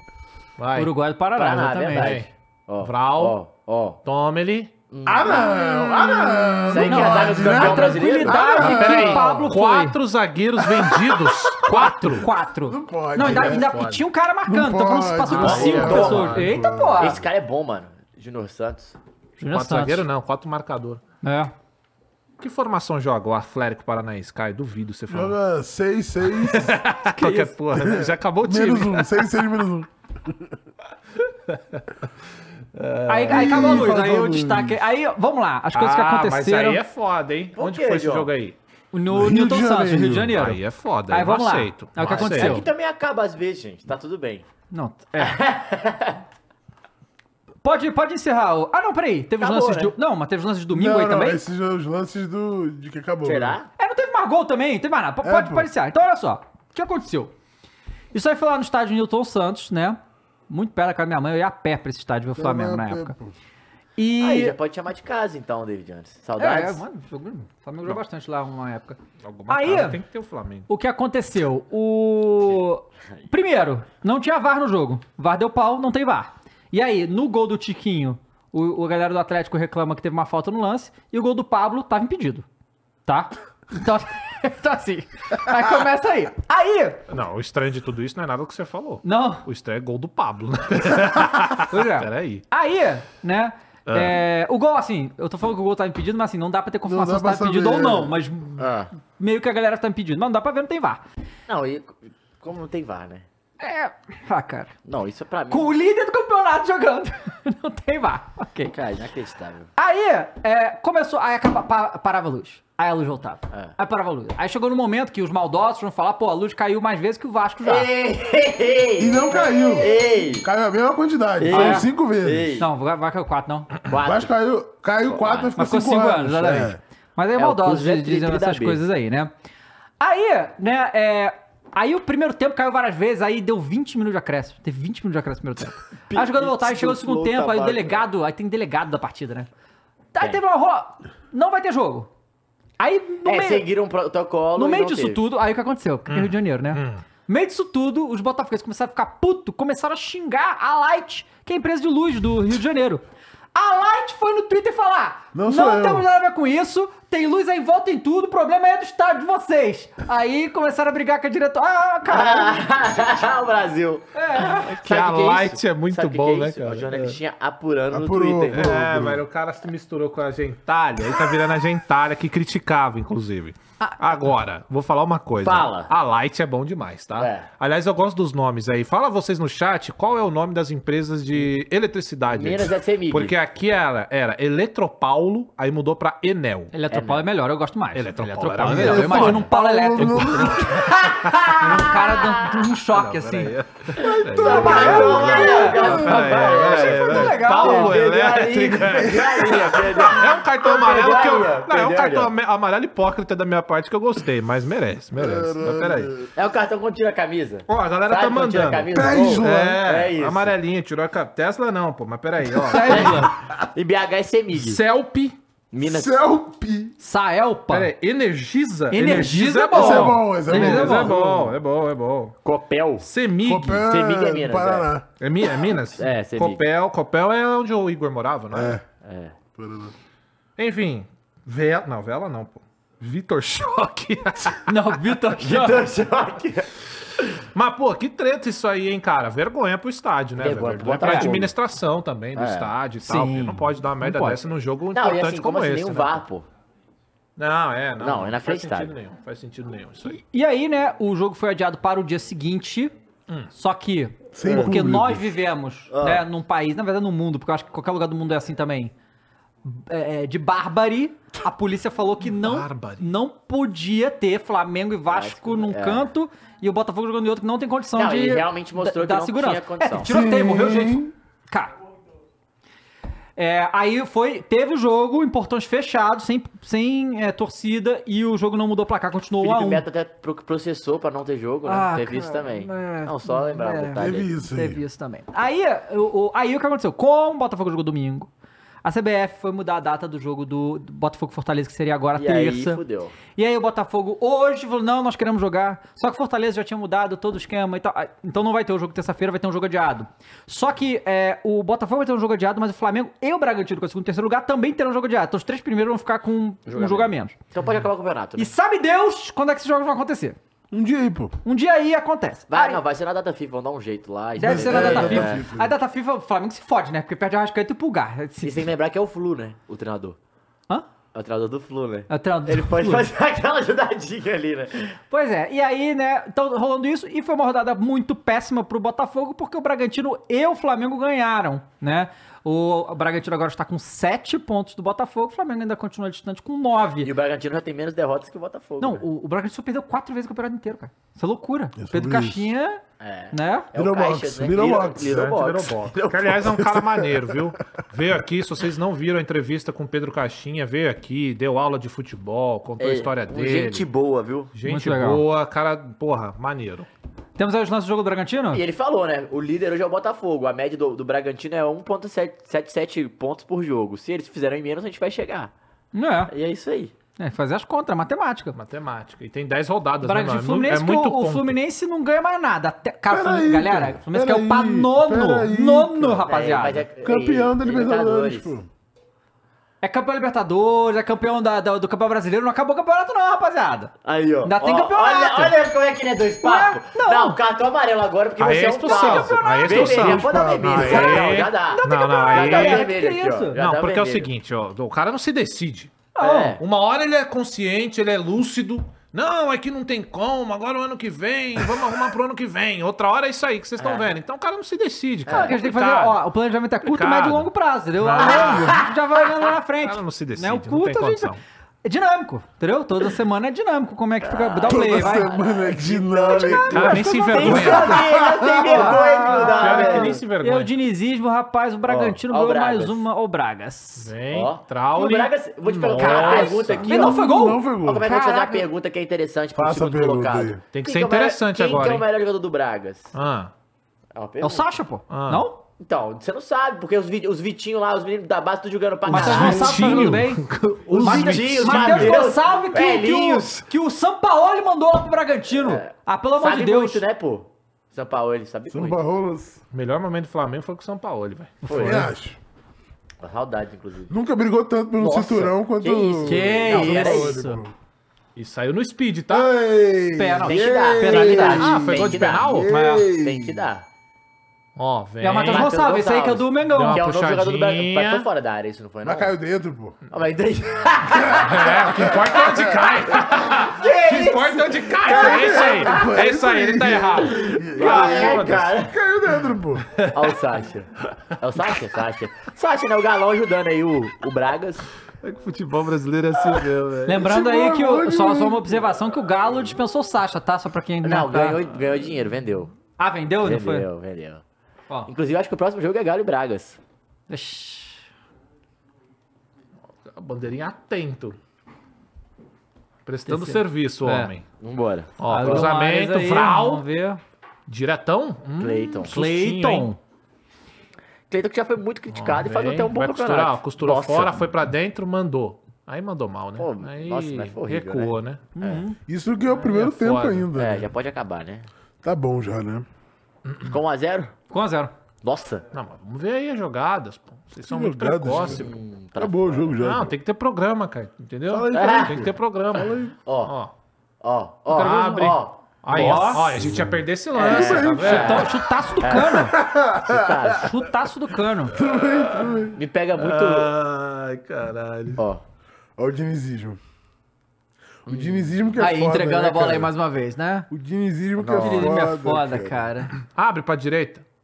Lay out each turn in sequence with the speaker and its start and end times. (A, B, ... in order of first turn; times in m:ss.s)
0:00.6-0:00.9 A
0:00.8-0:02.2 B
0:01.4-0:04.0 C
0:01.9-0:02.3 A
0:02.8-0:03.4 A
0:04.0-0:04.7 A
0:04.9-0:05.7 C
0:05.1-0:09.5 D
0:06.0-0:10.0 B
0:06.7-0:08.6 C
0:08.6-0:12.3 A
0:11.6-0:17.2 B
0:12.7-0:13.8 D
0:13.2-0:14.0 A
0:14.5-0:17.2 D
0:15.3-0:19.0 C
0:15.4-0:16.5 A
0:19.4-0:20.1 B
0:19.5-0:21.0 A
0:21.2-0:21.5 B
0:22.4-0:25.4 A
0:25.1-0:26.8 D
0:26.4-0:29.4 A
0:27.2-0:27.6 B
0:27.7-0:30.6 D
0:31.5-0:31.8 A
0:32.7-0:33.9 A
0:33.1-0:36.8 B
0:33.3-0:34.8 D
0:35.7-0:38.6 A
0:37.6-0:38.3 C
0:38.9-0:42.7 B
0:39.1-0:40.4 D
0:40.4-0:42.7 A
0:42.0-0:44.5 C
0:44.7-0:45.4 B
0:45.2-0:46.2 C
0:47.6-0:51.4 B
0:49.4-0:49.9 C
0:50.7-0:53.6 D
0:53.2-0:53.7 C
0:53.8-0:57.3 B
0:55.2-0:55.7 D
0:58.1-1:03.2 B
1:02.4-1:03.3 D
1:04.0-1:04.6 B
1:04.2-1:06.8 C
1:06.4-1:10.0 B
1:09.2-1:10.7 A
1:10.7-1:22.5 B
1:23.1-1:27.0 B
1:27.1-1:32.4 A
1:29.0-1:29.4 B
1:31.7-1:41.0 B
1:33.9-1:34.2 A
1:36.8-1:38.2 D
1:38.6-1:38.9 C
1:41.5-1:43.2 C
1:43.6-1:44.7 B
1:44.9-1:45.7 C
1:45.5-1:48.7 B
1:48.7-1:49.7 C
1:49.8-1:57.9 B
1:57.6-2:00.5 C
1:59.0-2:02.6 D
2:01.4-2:02.7 C
2:01.5-2:01.9 B
2:02.6-2:03.7 B
2:03.9-2:04.3 C
2:04.0-2:06.8 D
2:05.1-2:05.5 C
2:05.6-2:09.3 B
2:07.4-2:08.8 C
2:10.0-2:19.5 B
2:16.1-2:18.0 C
2:20.1-2:22.1 B
2:22.8-2:23.7 B
2:23.3-2:25.2 C
2:24.6-2:33.0 B
2:26.1-2:27.0 A
2:33.6-2:42.6 B
2:35.3-2:36.1 D
2:42.1-2:48.8 C
2:44.1-2:44.7 B
2:44.6-2:47.2 A
2:47.9-2:49.2 D
2:48.5-3:06.7 A
2:55.4-2:55.9 C
2:57.2-2:57.5 C
3:02.3-3:03.4 C
3:06.7-3:13.6 B
3:06.9-3:07.2 C
3:08.0-3:11.6 A
3:08.6-3:10.9 D
3:11.0-3:12.6 C
3:12.9-3:26.1 A
3:14.0-3:22.3 C
3:14.0-3:15.9 D
3:14.5-3:18.0 B
3:25.2-3:26.3 D
3:26.4-3:30.6 C
3:27.7-3:33.3 A
3:28.9-3:29.8 D
3:32.7-3:33.3 B
3:32.9-3:34.8 C
3:34.5-3:35.4 A
3:35.7-3:36.1 C
3:35.8-3:37.0 D
3:37.0-3:37.9 B
3:37.7-3:42.4 A
3:38.9-3:41.2 B
3:39.7-3:41.3 D
3:41.1-3:41.5 C
3:42.4-3:43.1 C
3:43.0-3:43.8 A
3:43.4-3:45.1 D
3:43.8-3:44.9 C
3:45.2-3:48.8 A
3:46.0-3:46.6 C
3:48.5-3:48.8 D
3:49.0-3:49.4 C
3:49.6-3:49.9 D
3:50.6-3:54.7 A
3:54.7-3:55.9 B
3:55.4-3:56.7 C
3:57.5-4:06.2 A
4:00.4-4:01.5 C
4:01.0-4:01.3 B
4:02.4-4:02.7 C
4:03.0-4:04.4 B
4:04.9-4:06.5 C
4:07.4-4:10.2 A
4:08.0-4:08.9 C
4:10.1-4:12.9 B
4:13.5-4:18.9 B
4:14.3-4:15.3 D
4:15.9-4:16.2 C
4:19.6-4:31.7 B
4:22.3-4:23.1 A
4:25.1-4:26.1 C
4:28.0-4:30.1 C
4:30.0-4:31.1 D
4:33.4-4:39.8 B
4:39.4-4:44.3 C
4:41.6-4:48.3 B
4:44.0-4:44.8 D
4:48.8-5:07.4 B
4:52.2-4:53.2 C
5:06.7-5:08.5 C
5:08.4-5:10.4 B
5:10.7-5:11.4 D
5:11.4-5:12.8 B
5:12.5-5:15.5 C
5:14.4-5:18.7 B
5:14.4-5:15.7 D
5:18.4-5:20.2 C
5:21.1-5:25.0 C
5:22.1-5:23.1 B
5:25.1-5:37.1 B
5:37.0-5:39.0 C
5:38.8-5:43.7 B
5:41.8-5:42.5 D
5:43.0-5:46.6 C
5:43.8-5:45.2 D
5:45.0-5:53.9 A
5:46.8-5:47.2 D
5:52.8-5:54.5 C
5:54.5-5:56.9 A
5:54.6-5:55.2 B
5:57.4-5:58.6 B
5:58.5-6:05.5 C
6:05.9-6:06.3 B
6:06.3-6:06.9 C
6:07.2-6:08.6 B
6:08.5-6:11.6 A
6:10.0-6:16.9 B
6:13.1-6:16.3 D
6:16.3-6:18.5 C
6:17.0-6:18.7 D
6:19.8-6:23.9 B
6:24.0-6:34.3 C
6:24.4-6:25.6 B
6:26.4-6:27.4 B
6:28.4-6:32.9 A
6:28.8-6:30.1 B
6:29.9-6:31.2 D
6:30.8-6:33.6 B
6:33.6-6:46.2 A
6:36.2-6:36.6 B
6:36.2-6:36.6 C
6:43.8-6:44.1 C
6:45.3-6:45.6 C
6:45.3-6:55.3 B
6:46.8-6:48.9 A
6:48.2-6:48.9 C
6:49.8-6:51.4 A
6:54.2-7:00.2 C
6:54.7-6:57.0 D
6:56.3-7:04.1 B
6:56.7-6:58.1 A
6:57.9-6:59.5 D
6:59.3-7:00.7 A
7:01.9-7:03.0 C
7:04.0-7:06.9 A
7:04.3-7:07.3 C
7:05.9-7:08.7 B
7:06.9-7:08.1 D
7:07.8-7:13.1 C
7:09.6-7:10.6 D
7:10.7-7:12.1 A
7:13.1-7:13.5 A
7:14.1-7:14.7 C
7:14.4-7:15.6 B
7:15.1-7:15.4 A
7:15.8-7:20.1 C
7:19.1-7:22.2 A
7:19.1-7:27.0 B
7:20.9-7:23.6 C
7:25.5-7:29.0 C
7:28.7-7:29.6 D
7:29.7-7:32.0 A
7:31.6-7:32.1 B
7:31.6-7:32.1 C
7:31.8-7:32.4 D
7:33.2-7:34.1 C
7:34.1-7:37.7 D
7:35.0-7:37.4 C
7:36.2-7:37.6 B
7:38.4-7:39.5 A
7:39.3-7:43.7 D
7:40.2-7:41.7 B
7:40.5-7:43.9 C
7:41.5-7:43.1 A
7:44.8-7:45.8 A
7:45.2-7:47.1 B
7:45.3-7:49.3 C
7:46.7-7:48.3 A
7:49.0-7:50.0 D
7:50.1-7:56.2 C
7:51.1-7:52.4 D
7:51.4-7:58.8 A
7:55.0-7:59.9 D
7:57.5-7:58.9 C
7:59.9-8:00.4 A
8:00.1-8:04.8 C
8:05.2-8:07.3 A
8:07.1-8:11.6 B
8:07.1-8:08.9 D
8:11.0-8:12.7 C
8:13.0-8:13.9 B
8:13.4-8:14.4 C
8:15.1-8:16.8 C
8:17.3-8:18.0 B
8:20.0-8:21.4 A
8:23.0-8:24.5 A
8:23.3-8:24.3 B
8:24.6-8:25.7 C
8:25.2-8:26.8 A
8:25.2-8:27.2 B
8:27.7-8:29.9 A
8:28.6-8:29.1 C
8:29.1-8:30.0 B
8:31.3-8:34.4 C
8:32.1-8:38.4 A
8:36.6-8:38.8 C
8:38.6-8:39.0 B
8:39.1-8:40.9 D
8:39.6-8:40.5 A
8:40.6-8:41.7 C
8:42.0-8:42.9 D
8:43.5-8:43.8 A
8:43.6-8:44.3 C
8:44.5-8:44.9 B
8:45.2-8:45.6 C
8:45.7-8:48.7 A
8:47.6-8:50.1 D
8:48.4-8:49.8 C
8:49.8-8:53.7 A
8:51.5-8:53.1 D
8:51.7-8:52.2 C
8:53.3-8:53.5 C
8:54.2-8:56.4 C
8:54.7-8:58.5 A
8:55.9-8:56.6 B
8:56.6-8:58.5 D
8:57.4-9:00.8 C
8:58.0-8:59.6 B
8:59.5-9:00.5 D
9:00.6-9:01.8 B
9:01.7-9:02.8 D
9:02.7-9:03.7 C
9:03.2-9:05.2 A
9:05.2-9:05.4 C
9:06.0-9:06.8 D
9:08.1-9:09.9 D
9:08.1-9:08.5 C
9:08.8-9:10.7 B
9:10.7-9:12.8 D
9:11.4-9:12.0 C
9:11.6-9:13.1 B
9:13.2-9:14.2 A